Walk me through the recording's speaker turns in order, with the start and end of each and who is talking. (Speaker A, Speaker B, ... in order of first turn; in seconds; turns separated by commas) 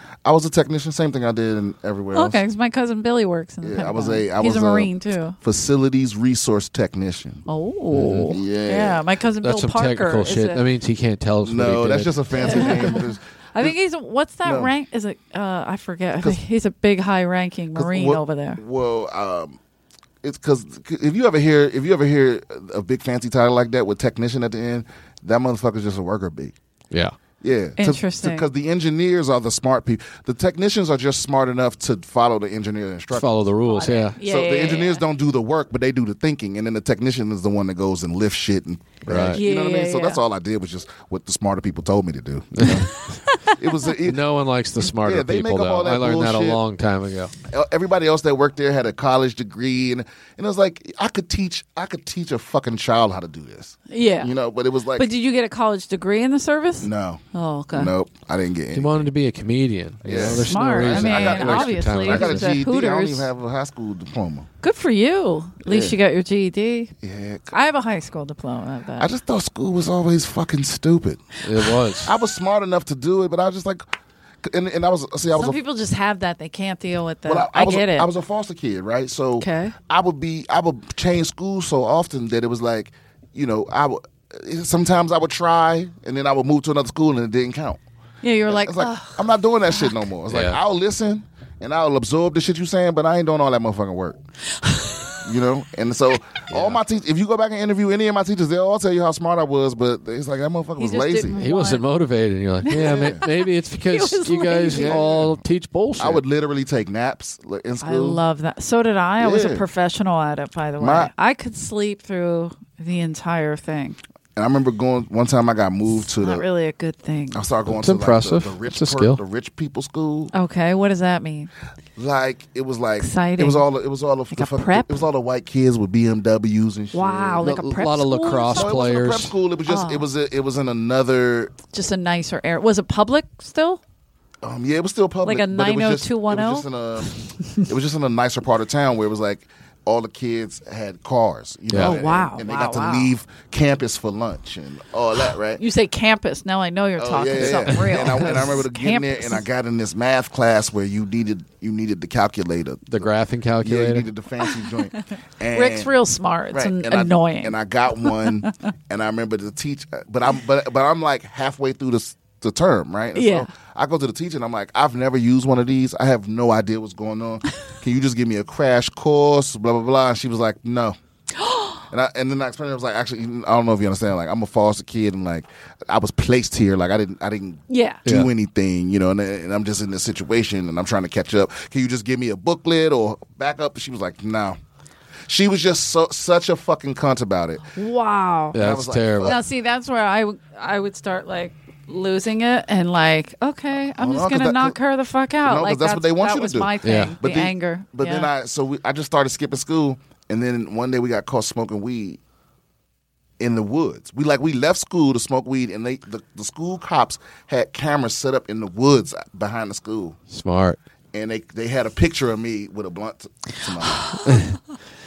Speaker A: 0.2-2.4, Speaker B: 2.1-5.4, Speaker A: 3.6-7.4, Speaker B: 7.5-10.6, Speaker C: 7.9-8.3, Speaker A: 8.3-9.0, Speaker C: 9.4-12.9, Speaker A: 11.4-13.8, Speaker B: 12.4-13.0, Speaker B: 13.5-18.6, Speaker A: 14.4-14.7, Speaker A: 17.8-19.6, Speaker A: 20.2-26.5, Speaker A: 27.4-33.3, Speaker B: 27.8-28.5, Speaker C: 33.1-34.2, Speaker B: 33.7-35.0, Speaker A: 34.2-44.2, Speaker C: 39.1-39.4, Speaker B: 39.3-40.2, Speaker C: 42.6-43.0, Speaker B: 42.6-43.6, Speaker C: 44.0-47.3, Speaker A: 44.9-46.6, Speaker A: 47.5-55.1, Speaker B: 53.9-54.3, Speaker B: 55.0-57.9, Speaker A: 56.8-59.1, Speaker C: 58.7-62.5, Speaker A: 60.0-64.5, Speaker B: 60.1-63.3, Speaker B: 64.6-66.9, Speaker A: 65.7-66.0, Speaker A: 67.0-67.5, Speaker B: 67.5-69.1, Speaker A: 69.0-71.3, Speaker C: 71.4-72.1, Speaker A: 72.0-73.8, Speaker A: 74.4-75.6, Speaker B: 75.3-78.1, Speaker A: 77.3-87.8, Speaker B: 79.4-79.8, Speaker B: 88.2-90.0, Speaker A: 88.5-94.2, Speaker C: 90.3-90.6, Speaker B: 94.6-95.2, Speaker A: 95.2-101.4, Speaker C: 96.5-96.8, Speaker B: 100.8-101.8, Speaker C: 101.3-106.2, Speaker B: 102.7-105.0, Speaker A: 102.8-103.2, Speaker A: 104.7-105.4, Speaker A: 106.0-108.2, Speaker B: 107.8-114.0, Speaker A: 109.2-109.7, Speaker A: 110.8-111.1, Speaker A: 114.4-116.5, Speaker B: 116.0-117.4, Speaker A: 117.3-120.3, Speaker C: 117.7-119.2, Speaker B: 120.3-121.5, Speaker A: 122.0-127.6, Speaker B: 123.0-123.7, Speaker B: 124.3-125.0, Speaker B: 126.9-128.9, Speaker C: 127.4-129.3, Speaker A: 128.5-131.5, Speaker B: 129.7-130.1, Speaker B: 131.7-133.8, Speaker A: 134.4-145.6, Speaker B: 135.2-136.7, Speaker C: 141.7-142.0, Speaker B: 141.7-143.1, Speaker B: 145.6-149.4, Speaker A: 147.0-152.9, Speaker C: 147.7-148.3, Speaker C: 152.9-154.1, Speaker A: 153.6-155.9, Speaker B: 154.4-155.0, Speaker B: 155.5-158.5, Speaker A: 156.5-170.9, Speaker B: 163.2-163.5, Speaker B: 171.4-171.8, Speaker A: 171.9-184.6, Speaker B: 177.7-178.0, Speaker A: 185.3-187.7, Speaker B: 187.8-188.6, Speaker C: 188.5-189.4, Speaker A: 188.6-189.4, Speaker B: 189.2-198.3, Speaker A: 194.0-194.8, Speaker A: 195.4-202.2, Speaker C: 196.8-197.2, Speaker A: 203.4-210.2, Speaker C: 210.3-210.8, Speaker A: 211.1-214.1, Speaker B: 213.8-214.2, Speaker C: 214.2-214.6